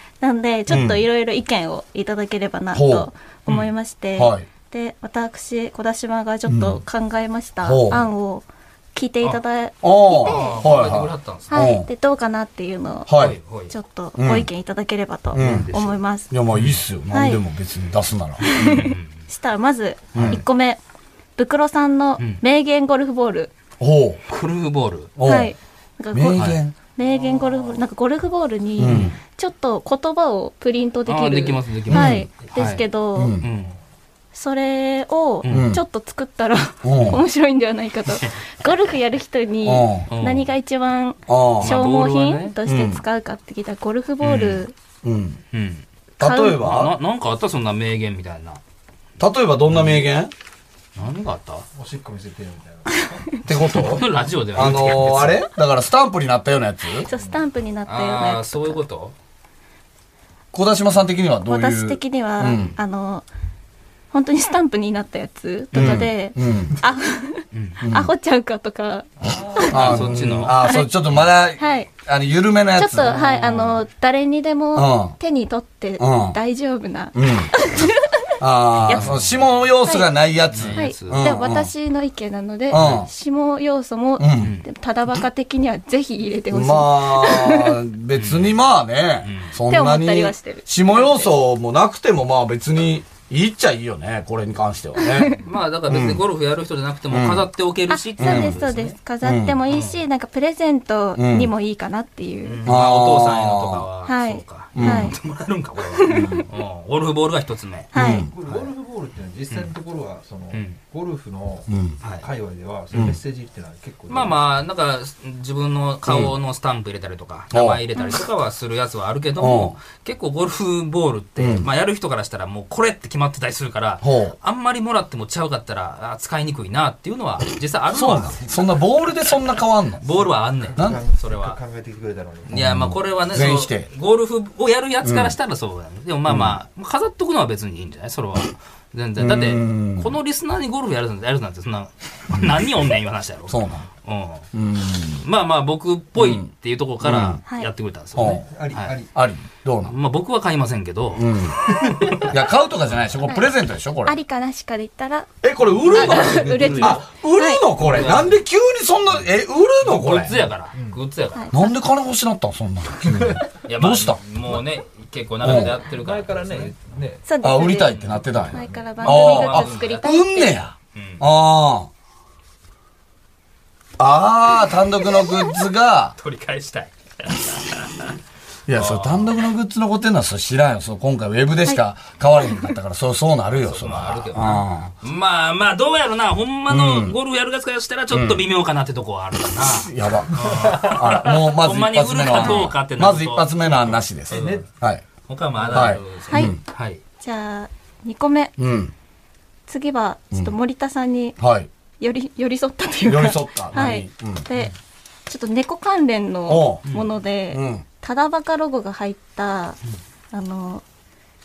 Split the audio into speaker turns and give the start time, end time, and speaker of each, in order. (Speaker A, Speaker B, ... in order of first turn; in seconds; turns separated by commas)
Speaker A: 0.2-10.7, Speaker B: 0.7-1.0, Speaker B: 2.7-3.1, Speaker B: 4.2-4.5, Speaker B: 6.5-6.8, Speaker B: 7.6-8.0, Speaker B: 9.8-11.9, Speaker C: 10.2-11.7, Speaker A: 11.5-13.2, Speaker B: 13.1-13.4, Speaker C: 13.1-13.7, Speaker A: 13.7-16.3, Speaker B: 14.2-14.5, Speaker B: 15.3-15.7, Speaker C: 15.3-16.0, Speaker B: 16.3-18.5, Speaker C: 16.5-16.8, Speaker A: 17.1-17.4, Speaker A: 18.4-20.8, Speaker C: 18.5-19.2, Speaker B: 20.1-20.4, Speaker A: 21.4-23.5, Speaker B: 23.8-24.2, Speaker C: 24.3-25.1, Speaker B: 25.2-25.5, Speaker A: 25.2-33.4, Speaker B: 26.1-26.7, Speaker D: 27.0-27.9, Speaker B: 28.8-29.2, Speaker C: 28.9-29.1, Speaker C: 31.1-32.8, Speaker B: 31.9-32.3, Speaker B: 33.2-33.5, Speaker C: 33.4-33.8, Speaker A: 34.3-44.7, Speaker C: 35.4-35.7, Speaker B: 35.5-35.8, Speaker B: 36.8-37.2, Speaker B: 39.6-40.1, Speaker C: 40.1-40.5, Speaker B: 41.3-41.8, Speaker C: 41.6-42.5, Speaker B: 42.7-43.0, Speaker C: 44.2-44.6, Speaker B: 45.0-45.4, Speaker C: 45.5-45.9, Speaker A: 46.2-46.7, Speaker B: 46.2-47.0, Speaker C: 46.6-48.6, Speaker B: 49.2-50.3, Speaker C: 49.7-50.0, Speaker C: 51.0-51.7, Speaker D: 51.8-53.4, Speaker B: 53.5-57.1, Speaker C: 53.6-55.5, Speaker D: 54.6-55.2, Speaker A: 57.1-58.8, Speaker D: 57.1-57.5, Speaker C: 57.9-59.1, Speaker B: 60.5-62.8, Speaker A: 61.5-63.2, Speaker A: 64.1-70.0, Speaker C: 65.7-66.1, Speaker B: 65.7-66.7, Speaker C: 67.5-67.8, Speaker B: 67.8-68.1, Speaker D: 69.2-69.8, Speaker B: 69.7-73.1, Speaker C: 69.7-71.3, Speaker A: 70.6-70.9, Speaker A: 71.6-71.9, Speaker A: 72.8-78.1, Speaker C: 73.1-73.8, Speaker B: 74.8-75.2, Speaker B: 76.0-76.4, Speaker B: 77.1-77.5, Speaker B: 78.4-81.7, Speaker C: 78.9-79.5, Speaker A: 78.9-80.1, Speaker C: 80.5-81.3, Speaker A: 80.7-87.8, Speaker B: 82.7-83.1, Speaker C: 82.8-83.0, Speaker B: 84.2-84.6, Speaker C: 84.4-84.7, Speaker B: 86.5-95.3, Speaker C: 88.1-88.6, Speaker C: 89.2-89.6, Speaker A: 89.7-91.3, Speaker A: 95.0-95.4, Speaker C: 95.4-99.0, Speaker B: 95.9-96.2, Speaker B: 97.1-97.5, Speaker A: 97.9-102.7, Speaker B: 98.2-98.6, Speaker B: 99.2-99.6, Speaker C: 99.7-100.0, Speaker B: 101.2-101.5, Speaker C: 102.5-107.9, Speaker B: 102.7-103.9, Speaker A: 104.0-105.1, Speaker B: 104.8-105.1, Speaker A: 106.0-106.4, Speaker B: 106.1-106.4, Speaker A: 107.9-108.3, Speaker B: 107.9-108.4, Speaker D: 108.3-114.4, Speaker C: 110.5-110.8, Speaker B: 111.7-112.0, Speaker C: 112.0-112.3, Speaker C: 114.1-128.4, Speaker B: 116.1-116.3, Speaker B: 117.5-117.8, Speaker B: 119.4-119.8, Speaker B: 121.4-121.7, Speaker B: 124.0-124.4, Speaker B: 127.9-130.1, Speaker C: 130.0-131.6, Speaker D: 130.2-132.6, Speaker B: 132.5-133.9, Speaker C: 132.5-144.5, Speaker B: 135.0-135.4, Speaker B: 136.3-136.6, Speaker B: 139.2-140.1, Speaker B: 143.5-143.9, Speaker B: 144.5-145.2, Speaker C: 145.2-149.0, Speaker B: 146.2-146.5, Speaker B: 147.0-147.4, Speaker B: 148.2-148.4, Speaker D: 148.2-149.1, Speaker B: 149.1-149.9, Speaker C: 149.8-152.4, Speaker B: 151.2-151.7, Speaker B: 152.2-154.1, Speaker A: 153.3-153.5, Speaker A: 154.0-155.3, Speaker B: 155.4-160.3, Speaker D: 155.6-157.1, Speaker A: 155.9-157.7, Speaker C: 157.8-158.4, Speaker D: 157.8-158.3, Speaker C: 159.8-161.5, Speaker D: 160.7-161.0, Speaker A: 161.4-161.7, Speaker B: 161.5-164.2, Speaker D: 163.0-163.4, Speaker C: 163.6-166.9, Speaker B: 165.4-165.8, Speaker D: 165.4-167.2, Speaker A: 167.2-170.6, Speaker B: 167.4-171.9, Speaker C: 167.8-170.1, Speaker C: 170.9-171.2, Speaker B: 174.0-176.1, Speaker C: 176.2-178.1, Speaker B: 178.7-184.9, Speaker C: 178.7-179.4, Speaker C: 183.6-194.7, Speaker B: 186.7-187.2, Speaker B: 188.1-188.4, Speaker B: 189.5-195.0, Speaker A: 192.3-192.7, Speaker D: 194.3-194.7, Speaker C: 195.3-197.0, Speaker D: 195.6-195.9, Speaker B: 195.7-196.6, Speaker A: 196.3-196.6, Speaker A: 197.2-198.5, Speaker B: 198.6-198.9, Speaker A: 199.7-201.4, Speaker B: 201.4-201.7, Speaker A: 202.0-204.8, Speaker B: 203.1-204.5, Speaker A: 205.3-209.8, Speaker B: 206.5-206.8, Speaker B: 207.5-207.8, Speaker A: 210.3-210.8